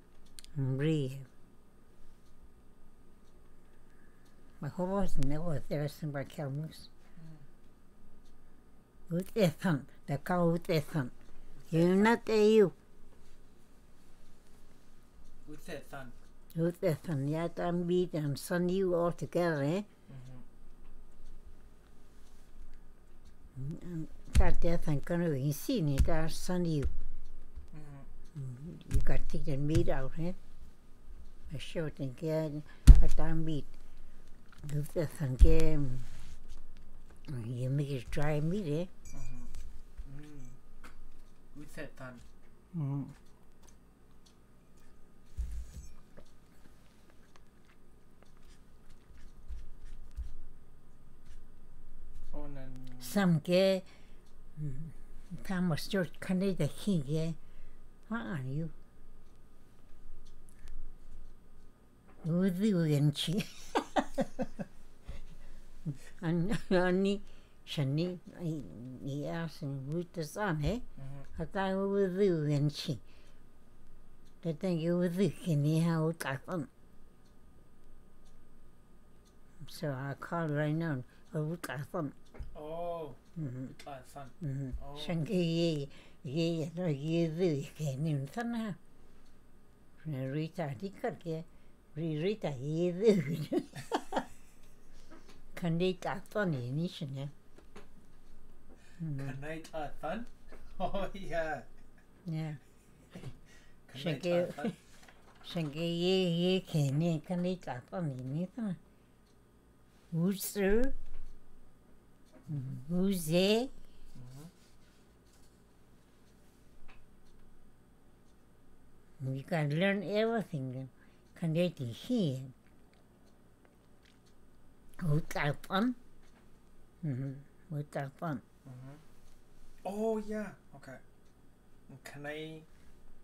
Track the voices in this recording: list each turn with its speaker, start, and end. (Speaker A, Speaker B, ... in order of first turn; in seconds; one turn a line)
Speaker A: 0.5-1.3
Speaker A: 4.6-6.9
Speaker B: 7.2-7.4
Speaker A: 9.1-11.1
Speaker B: 11.6-12.2
Speaker A: 11.7-12.7
Speaker B: 15.4-16.1
Speaker A: 16.5-19.9
Speaker B: 20.1-20.4
Speaker A: 23.6-26.9
Speaker B: 27.7-28.1
Speaker A: 28.4-30.4
Speaker A: 31.5-33.7
Speaker A: 34.6-36.1
Speaker A: 37.3-38.9
Speaker B: 39.1-39.5
Speaker B: 40.0-40.6
Speaker B: 41.5-42.2
Speaker A: 42.7-43.1
Speaker B: 52.3-53.2
Speaker A: 53.0-53.9
Speaker A: 54.6-57.4
Speaker A: 58.1-58.7
Speaker A: 62.2-64.5
Speaker A: 65.9-70.8
Speaker B: 71.0-71.3
Speaker A: 71.4-73.0
Speaker A: 74.4-76.7
Speaker A: 79.6-82.2
Speaker B: 82.5-85.2
Speaker A: 83.4-83.7
Speaker A: 84.4-88.8
Speaker A: 90.0-94.2
Speaker A: 95.5-97.3
Speaker A: 99.0-99.4
Speaker B: 99.1-101.7
Speaker A: 102.3-102.6
Speaker B: 103.9-104.8
Speaker A: 104.0-104.8
Speaker A: 105.4-108.8
Speaker A: 110.1-111.0
Speaker A: 112.5-113.7
Speaker B: 114.2-114.5
Speaker A: 119.2-122.5
Speaker A: 125.0-126.0
Speaker A: 127.0-128.4
Speaker B: 128.7-129.0
Speaker B: 129.8-131.0
Speaker B: 131.9-132.7